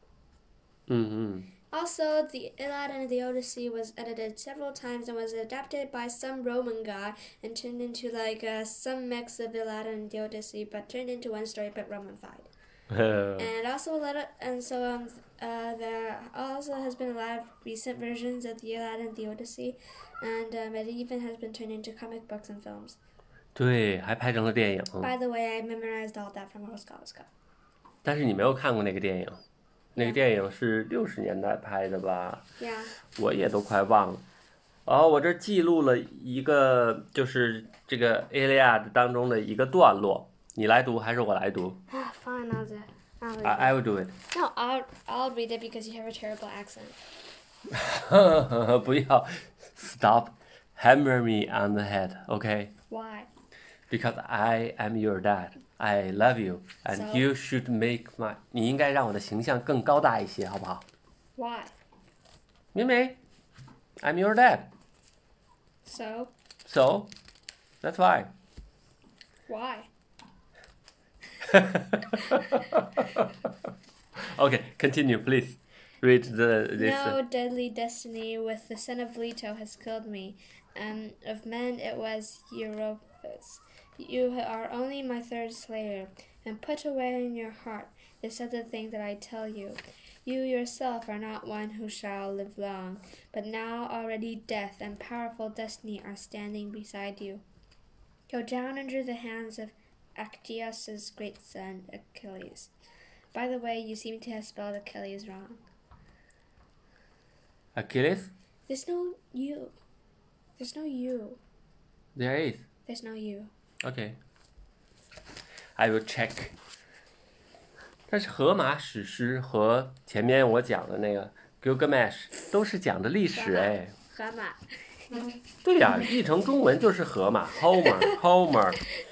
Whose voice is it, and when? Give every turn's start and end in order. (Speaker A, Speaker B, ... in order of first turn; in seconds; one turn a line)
Speaker A: 0.9-1.5
Speaker B: 1.7-12.5
Speaker A: 12.9-13.5
Speaker B: 13.4-23.0
Speaker A: 23.5-25.1
Speaker B: 25.0-27.3
Speaker A: 28.0-29.4
Speaker A: 29.9-32.4
Speaker B: 32.6-32.9
Speaker A: 33.1-34.2
Speaker A: 34.9-41.8
Speaker B: 41.9-43.8
Speaker A: 43.4-44.1
Speaker B: 44.3-47.0
Speaker A: 47.7-52.7
Speaker B: 52.9-53.3
Speaker A: 53.9-60.9
Speaker B: 56.9-57.3
Speaker B: 61.4-61.7
Speaker A: 62.7-63.2
Speaker A: 64.0-64.7
Speaker B: 65.8-66.3
Speaker A: 66.6-67.1
Speaker A: 67.8-68.3
Speaker B: 69.5-69.9
Speaker A: 71.4-73.5
Speaker B: 72.3-72.6
Speaker A: 74.2-77.2
Speaker B: 76.8-97.4
Speaker B: 98.3-102.7
Speaker B: 103.3-105.6
Speaker A: 107.7-108.3
Speaker B: 108.7-109.7
Speaker B: 110.6-111.4
Speaker A: 112.1-112.6
Speaker B: 112.9-113.5
Speaker A: 113.8-114.2
Speaker A: 115.8-116.5
Speaker A: 118.1-123.9
Speaker B: 123.3-125.3
Speaker A: 125.6-128.8
Speaker B: 127.8-128.2